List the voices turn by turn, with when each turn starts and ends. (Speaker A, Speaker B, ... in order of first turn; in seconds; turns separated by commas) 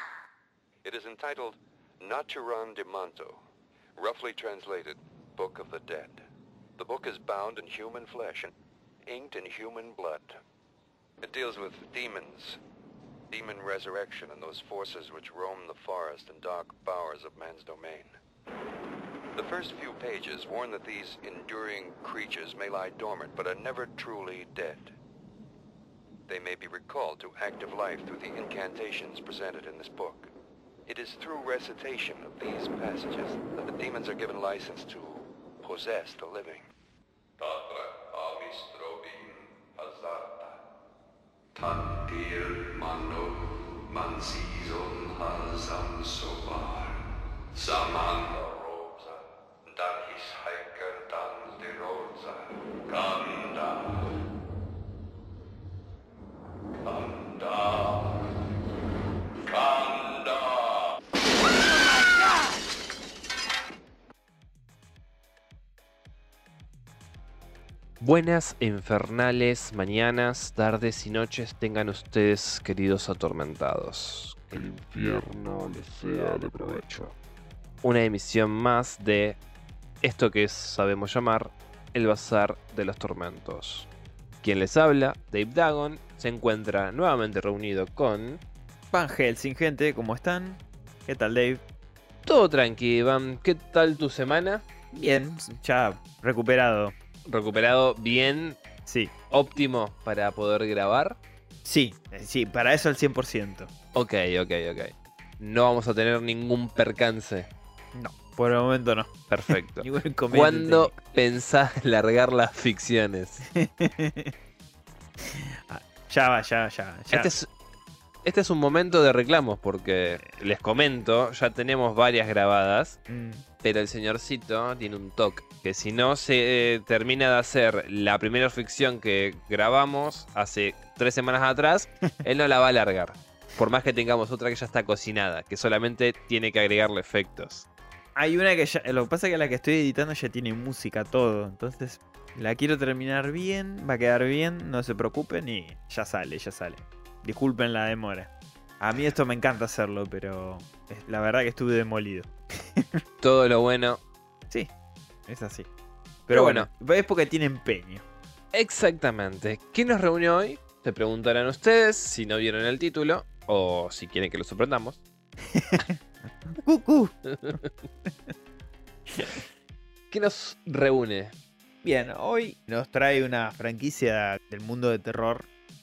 Speaker A: 0.8-3.4, Speaker A: 4.0-6.2, Speaker A: 6.8-8.5, Speaker A: 9.1-10.4, Speaker A: 11.2-12.6, Speaker A: 13.3-18.1, Speaker A: 19.3-24.9, Speaker A: 26.3-30.3, Speaker A: 30.9-36.6, Speaker A: 37.4-40.6, Speaker A: 41.5-47.0, Speaker A: 47.5-54.1, Speaker A: 56.8-58.3, Speaker A: 59.4-61.0, Speaker B: 68.0-74.7, Speaker C: 74.5-77.1, Speaker B: 76.1-77.0, Speaker B: 77.8-79.4, Speaker B: 80.0-83.9, Speaker B: 84.4-88.4, Speaker D: 88.9-91.6, Speaker B: 92.2-94.6, Speaker D: 94.9-96.9, Speaker B: 97.2-98.6, Speaker D: 98.8-99.1, Speaker B: 99.3-101.2, Speaker D: 101.6-103.7, Speaker B: 103.9-107.5, Speaker D: 107.9-110.9, Speaker B: 109.3-113.4, Speaker D: 113.5-114.3, Speaker D: 115.2-117.3, Speaker B: 117.1-117.5, Speaker B: 118.2-123.0, Speaker D: 123.1-123.4, Speaker B: 123.6-137.7, Speaker D: 138.2-153.0, Speaker B: 153.2-154.0, Speaker D: 155.3-155.7, Speaker D: 156.3-158.0, Speaker B: 156.3-156.7, Speaker B: 158.5-165.0, Speaker D: 165.5-167.2, Speaker B: 167.3-167.7, Speaker D: 169.1-169.4, Speaker B: 170.1-171.3, Speaker D: 171.8-175.5